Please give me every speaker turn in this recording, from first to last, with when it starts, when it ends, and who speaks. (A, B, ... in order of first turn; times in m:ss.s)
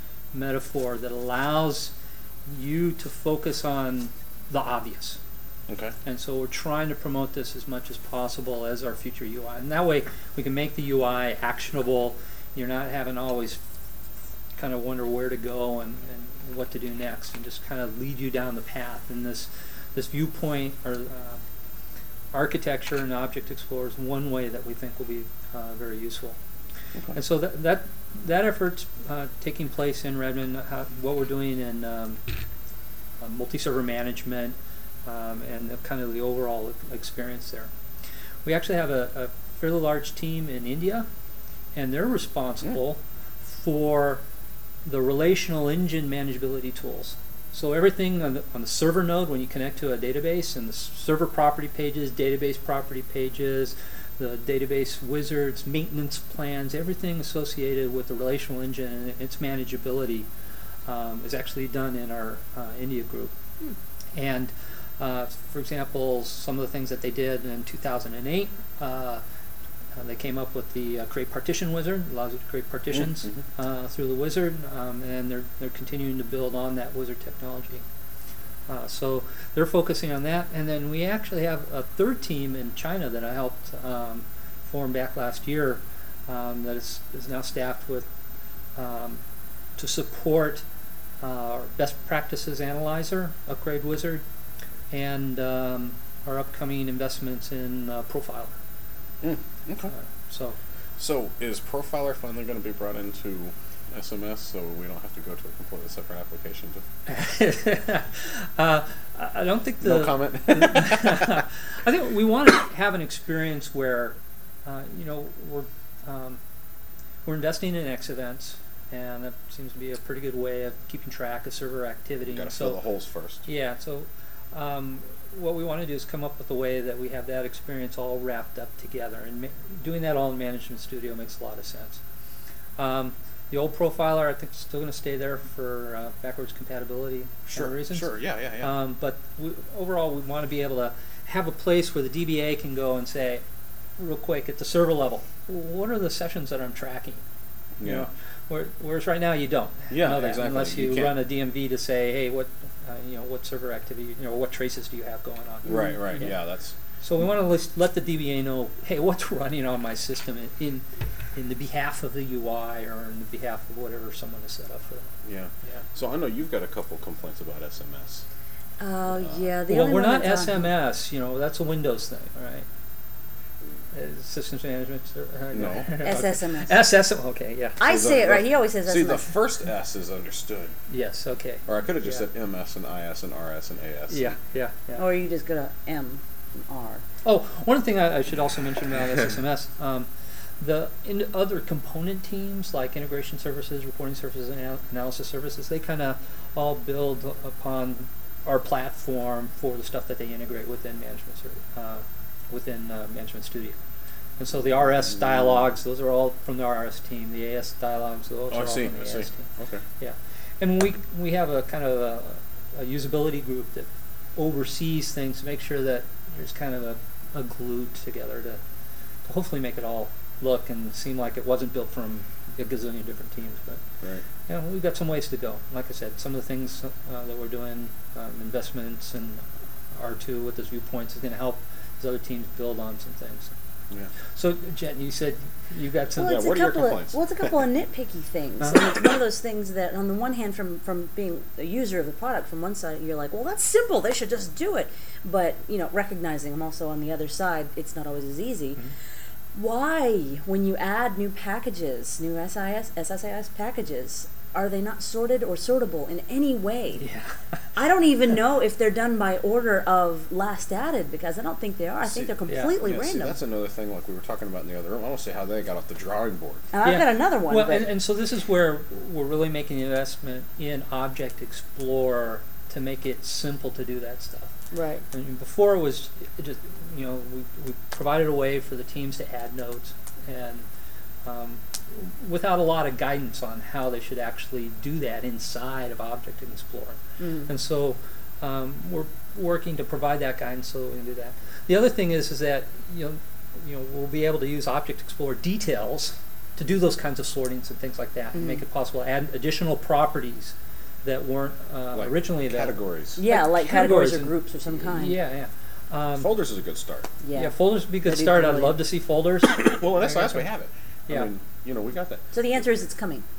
0:00.3-0:01.9 A
0:02.4-0:05.2 A
0:05.7-0:05.9 B
0:06.0-0:13.6 A
0:14.6-0:21.4 A
0:22.3-0:26.4 A
0:27.1-0:32.2 A
0:33.2-0:37.7 A
0:38.4-0:41.0 A
0:41.7-0:44.2 A
0:44.8-1:00.3 A
1:00.8-1:03.3 A
1:04.1-1:09.2 A
1:10.0-1:17.8 A
1:12.9-1:13.4 B
1:18.7-1:28.1 A
1:28.8-1:29.2 A
1:29.8-1:30.6 A
1:31.2-1:34.2 A
1:34.9-1:38.5 A
1:39.2-1:39.9 B
1:39.9-1:40.6 A
1:41.0-1:46.8 B
1:47.1-1:56.4 A
1:49.8-1:51.4 B
1:57.2-2:02.8 A
2:02.3-2:03.4 B
2:03.4-2:12.0 A
2:12.8-2:18.1 A
2:17.5-2:18.8 B
2:18.6-2:23.4 A
2:24.0-2:27.2 A
2:27.8-2:28.1 B
2:27.8-2:36.3 A
2:29.9-2:31.2 B
2:35.6-2:36.7 B
2:37.0-2:45.8 A
2:45.2-2:48.2 B
2:48.8-2:50.7 C
2:49.1-2:49.4 B
2:49.7-2:52.6 A
2:53.9-2:57.8 A
2:55.5-2:55.9 B
2:56.0-2:56.8 C
2:57.8-2:59.3 C
2:57.8-3:00.7 B
3:00.9-3:02.2 A
3:01.7-3:04.3 B
3:04.1-3:05.0 A
3:05.0-3:07.0 C
3:07.2-3:23.8 A
3:24.4-3:29.5 A
3:28.5-3:29.8 B
3:30.0-3:38.6 A
3:39.2-3:43.8 A
3:44.5-3:53.5 A
3:54.4-3:56.4 A
3:56.2-3:57.3 B
3:56.2-4:08.8 C
4:09.5-4:17.0 C
4:17.0-4:17.6 A
4:17.8-4:23.4 C
4:22.0-4:26.6 B
4:22.5-4:22.7 A
4:26.7-4:27.9 C
4:26.8-4:34.5 A
4:34.7-4:35.0 C
4:35.1-4:40.7 A
4:41.2-5:06.3 A
4:47.2-4:47.5 C
4:58.3-4:58.6 C
5:01.9-5:03.2 B
5:03.2-5:05.2 C
5:06.1-5:07.1 B
5:07.2-5:08.8 C
5:07.3-5:10.5 A
5:09.6-5:12.3 B
5:12.3-5:13.2 C